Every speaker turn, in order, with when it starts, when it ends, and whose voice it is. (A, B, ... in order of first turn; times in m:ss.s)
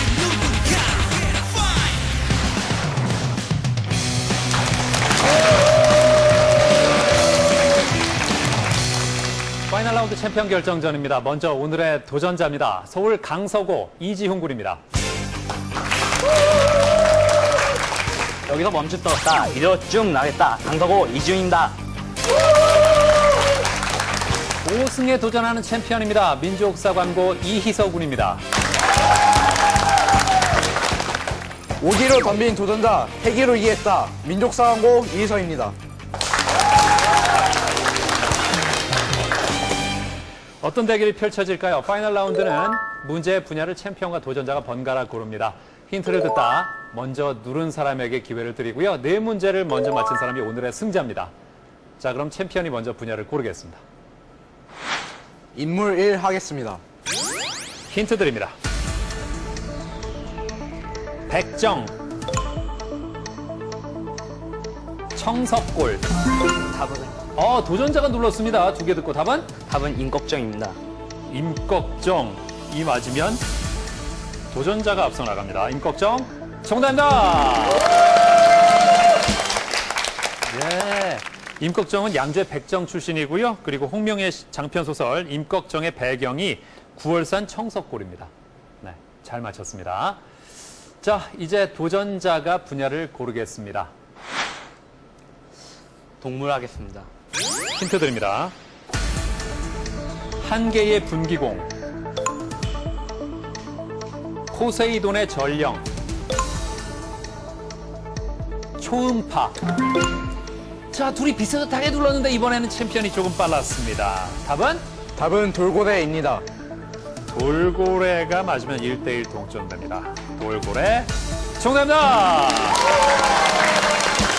0:09.7-0:14.8 A
0:18.5-0:21.8 B
0:24.6-0:28.4 A
0:31.8-0:35.7 C
0:40.6-0:51.3 A
0:52.0-0:53.8 A
0:55.6-0:56.8 C
0:57.9-0:58.6 A
1:01.3-1:02.0 A
1:05.1-1:06.0 A
1:06.7-1:07.2 B
1:07.4-1:09.5 A
1:09.6-1:10.8 B
1:11.3-1:13.4 A
1:14.5-1:17.9 A
1:20.4-1:28.3 A
1:28.8-1:30.2 A
1:31.0-1:33.9 A
1:36.2-1:37.1 B
1:37.7-1:38.5 A
1:40.4-1:41.7 A
1:44.5-1:45.8 A
1:48.8-1:49.6 A
1:50.9-1:54.8 A
1:55.2-1:56.4 C
1:57.3-2:02.8 A